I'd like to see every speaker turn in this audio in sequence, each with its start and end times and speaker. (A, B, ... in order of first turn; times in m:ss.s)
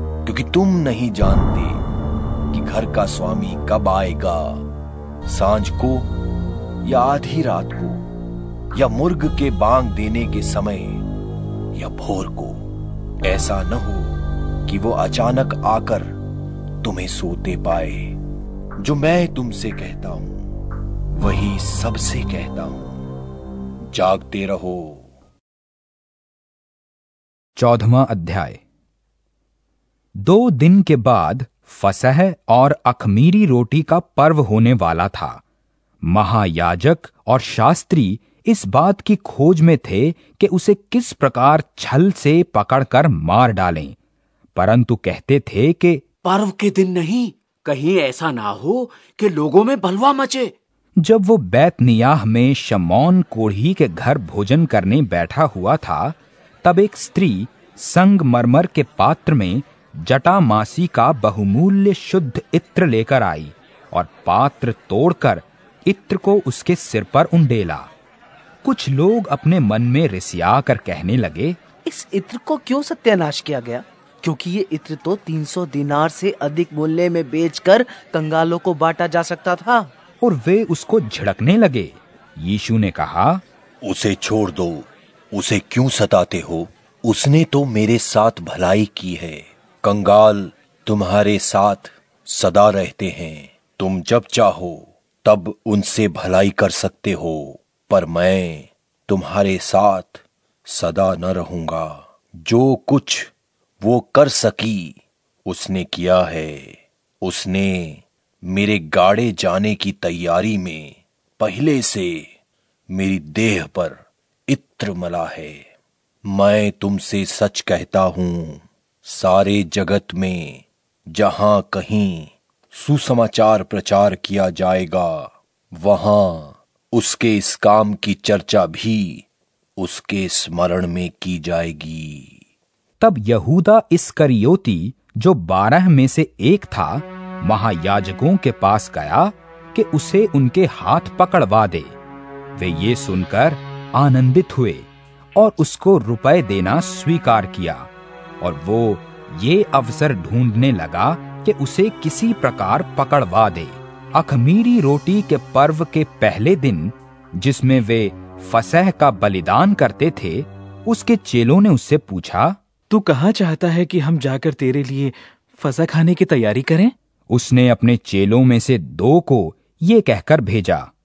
0:00.2-0:01.8 A
0:02.5-0:04.6 A
0:05.3-0:06.1 A
0:06.8-0:08.0 A
0:08.7-0:11.0 A
0:11.7-0:12.6 A
0:13.2-0:16.1 A
0:16.8-0:18.2 A
0:18.8-0:20.4 A
0:21.1-0:23.0 A
0:23.9-0:25.1 A
0:27.6-0:28.6 B
0:30.2-0:35.4 B
0:36.0-0:44.0 B
0:44.6-0:46.0 B
0:46.2-0:50.5 C
0:51.0-1:07.9 B
1:08.6-1:11.6 B
1:11.8-1:19.9 D
1:20.2-1:23.4 B
1:23.8-1:52.3 A
1:52.9-1:55.7 A
1:56.3-2:09.2 A
2:09.8-2:12.4 A
2:13.0-2:22.0 B
2:22.6-2:27.9 B
2:28.4-2:42.6 B
2:42.9-2:46.9 E
2:47.3-2:50.9 B